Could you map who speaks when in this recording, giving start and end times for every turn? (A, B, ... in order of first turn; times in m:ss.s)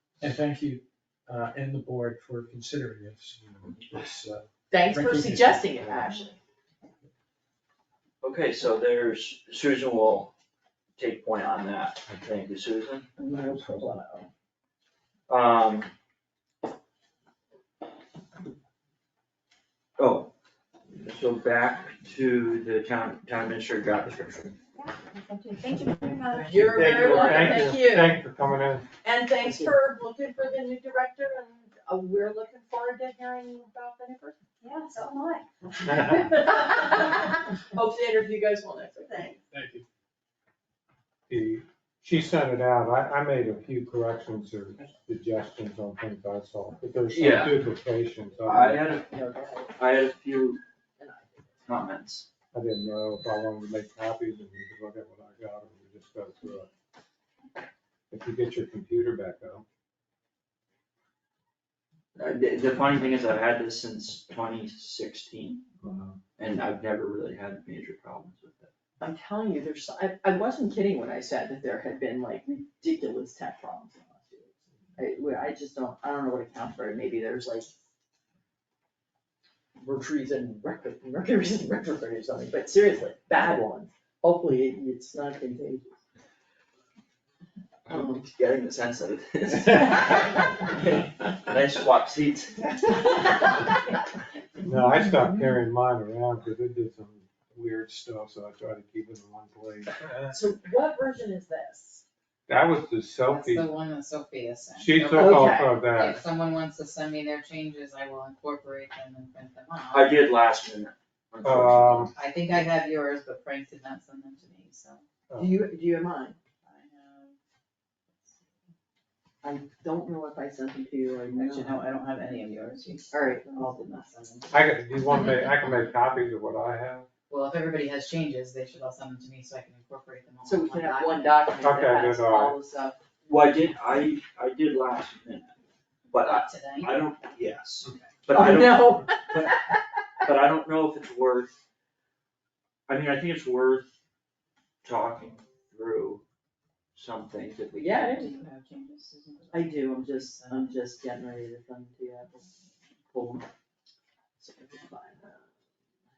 0:00.2-0:05.8 A
0:04.7-0:06.4 B
0:08.2-0:10.3 C
0:11.0-0:13.1 C
0:13.2-0:14.3 B
0:15.3-0:15.9 C
0:20.0-0:20.3 C
0:20.9-0:24.6 C
0:24.7-0:27.5 D
0:26.3-0:28.2 B
0:26.6-0:27.7 C
0:26.7-0:28.9 E
0:29.0-0:34.4 B
0:34.6-0:35.5 D
0:35.8-0:39.4 B
0:35.8-0:36.3 E
0:39.1-0:39.3 D
0:39.5-0:39.8 A
0:41.3-0:48.8 E
0:47.1-0:47.7 C
0:48.4-0:50.6 C
0:49.1-0:49.7 B
0:51.0-0:51.6 B
0:51.6-0:52.3 C
0:52.5-0:56.7 E
0:58.1-0:59.6 E
1:02.2-1:05.8 C
1:05.8-1:06.2 E
1:06.4-1:08.7 C
1:09.0-1:17.7 B
1:19.8-1:26.0 B
1:27.8-1:33.4 C
1:34.6-1:40.4 E
1:40.3-1:42.0 B
1:42.5-1:43.7 E
1:43.3-1:50.2 F
1:44.8-1:46.2 E
1:45.1-1:45.8 B
1:49.9-1:52.1 C
1:51.4-1:52.1 E
1:52.1-1:55.0 F
1:55.4-1:56.4 B
1:56.6-1:57.3 F
1:59.4-2:01.8 B
2:01.3-2:04.5 F
2:03.1-2:04.1 B
2:04.5-2:07.1 E
2:07.3-2:11.5 F
2:10.4-2:13.0 B
2:11.6-2:12.6 E
2:13.2-2:15.6 C
2:16.1-2:19.7 C
2:16.2-2:17.0 F
2:18.3-2:19.7 B
2:20.2-2:21.6 C
2:22.9-2:23.9 C
2:24.8-2:26.2 C
2:26.9-2:28.3 C
2:27.7-2:28.5 B
2:28.2-2:30.7 F
2:29.5-2:32.4 B
2:33.1-2:33.5 B
2:34.4-2:35.5 B